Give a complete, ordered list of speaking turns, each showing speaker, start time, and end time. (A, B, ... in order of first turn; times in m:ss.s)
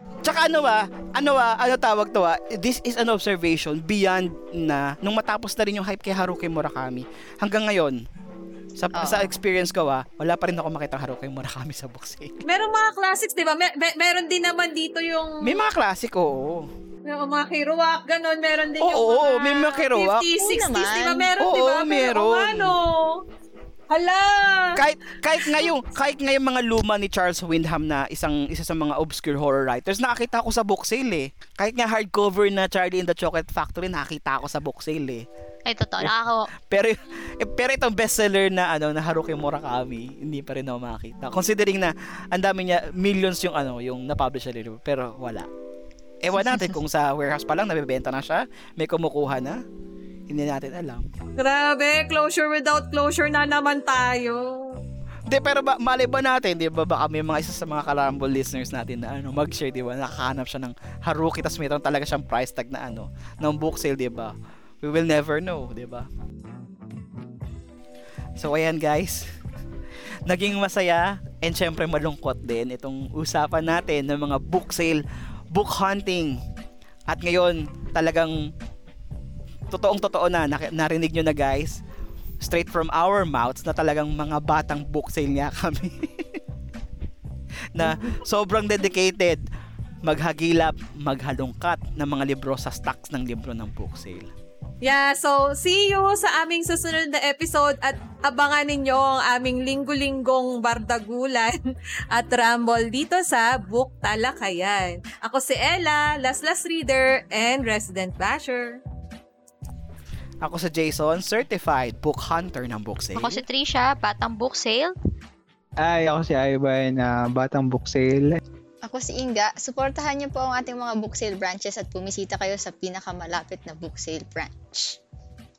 0:00.2-0:08.0 A
0:08.8-0:12.4 A
0:09.0-0:09.3 B
0:12.4-0:15.6 C
0:15.4-0:16.7 A
0:17.1-0:23.2 C
0:18.8-0:20.3 A
0:20.4-0:21.3 B
0:21.4-0:22.8 A
0:23.9-0:24.8 C
0:24.8-0:35.2 A
0:25.4-0:25.8 C
0:35.7-0:36.5 D
0:36.7-0:45.5 A
0:46.2-0:49.6 A
0:50.3-0:51.0 A
0:51.4-0:54.8 C
0:55.3-1:06.1 A
1:08.4-1:09.2 A
1:10.3-1:15.0 A
1:15.5-1:16.4 A
1:17.1-1:18.4 A
1:19.7-1:21.8 A
1:22.4-1:26.1 A
1:27.8-1:29.4 A
1:27.8-1:28.2 C
1:30.0-1:34.3 A
1:34.8-1:41.6 C
1:42.1-1:48.8 C
1:50.4-1:53.4 A
1:53.2-1:54.9 D
1:55.8-1:58.4 E
1:58.8-2:05.0 B